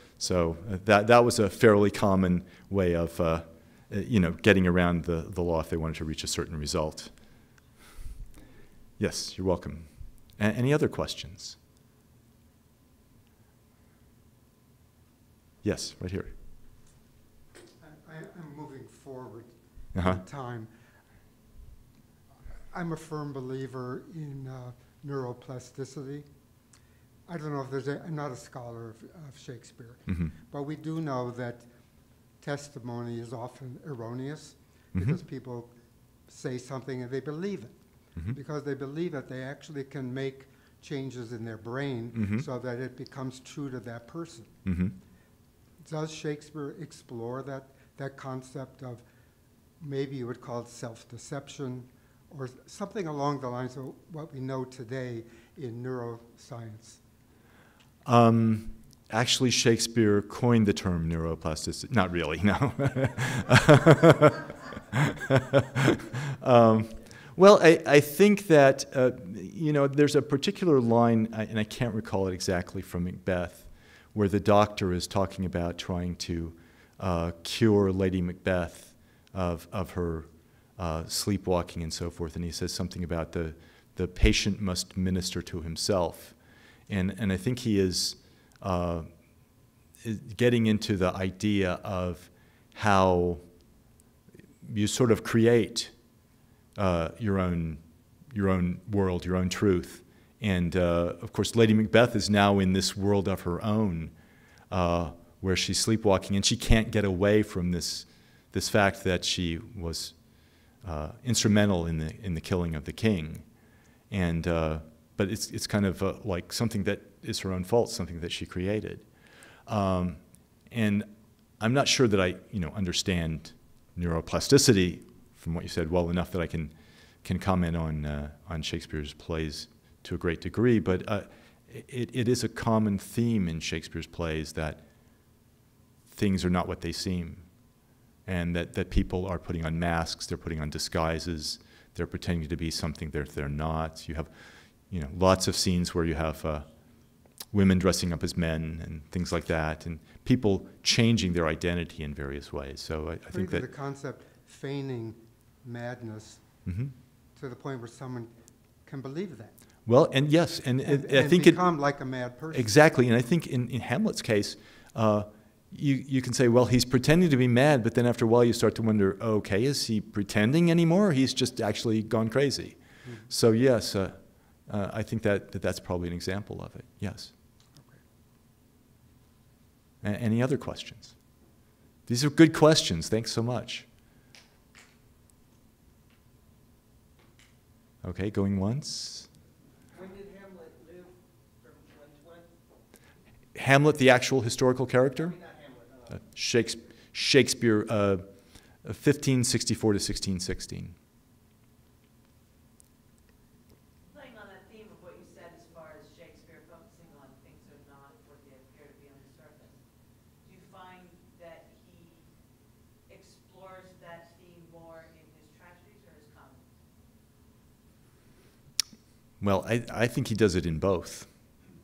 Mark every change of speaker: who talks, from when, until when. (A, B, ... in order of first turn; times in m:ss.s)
0:00.2-0:07.1 A
0:09.0-0:11.6 A
0:15.6-0:16.3 A
0:17.8-0:20.7 B
0:19.9-0:20.2 A
0:22.7-0:26.3 B
0:27.3-0:31.7 B
0:30.1-0:30.3 A
0:32.4-0:35.7 B
0:34.9-0:35.2 A
0:36.3-0:37.8 B
0:38.3-0:44.5 B
0:42.1-0:42.4 A
0:44.6-0:45.0 A
0:45.8-0:49.0 B
0:49.8-0:57.0 B
0:58.0-1:26.4 A
1:26.9-1:29.1 A
1:30.0-1:33.4 A
1:34.6-1:35.9 A
1:36.8-1:44.1 A
1:44.7-1:50.2 A
1:50.8-1:53.4 A
1:54.1-1:59.0 A
1:59.7-2:14.8 A
2:16.1-2:17.4 A
2:18.2-2:24.3 A
2:24.8-2:26.7 A
2:27.5-2:33.6 A
2:33.3-2:36.5 B
2:36.6-2:36.9 A
2:37.3-2:39.6 B
2:39.8-2:41.6 A
2:40.8-2:42.7 B
2:42.5-2:57.3 A
3:00.0-3:01.2 A
3:02.1-3:03.8 A
3:08.0-3:09.3 A
3:09.9-3:12.5 C
3:13.5-3:15.3 A
3:15.1-3:16.2 C
3:16.1-3:18.3 A
3:18.8-3:20.9 A
3:24.0-3:29.8 D
3:30.4-3:32.3 D
3:33.0-3:36.6 D
3:39.4-3:41.3 A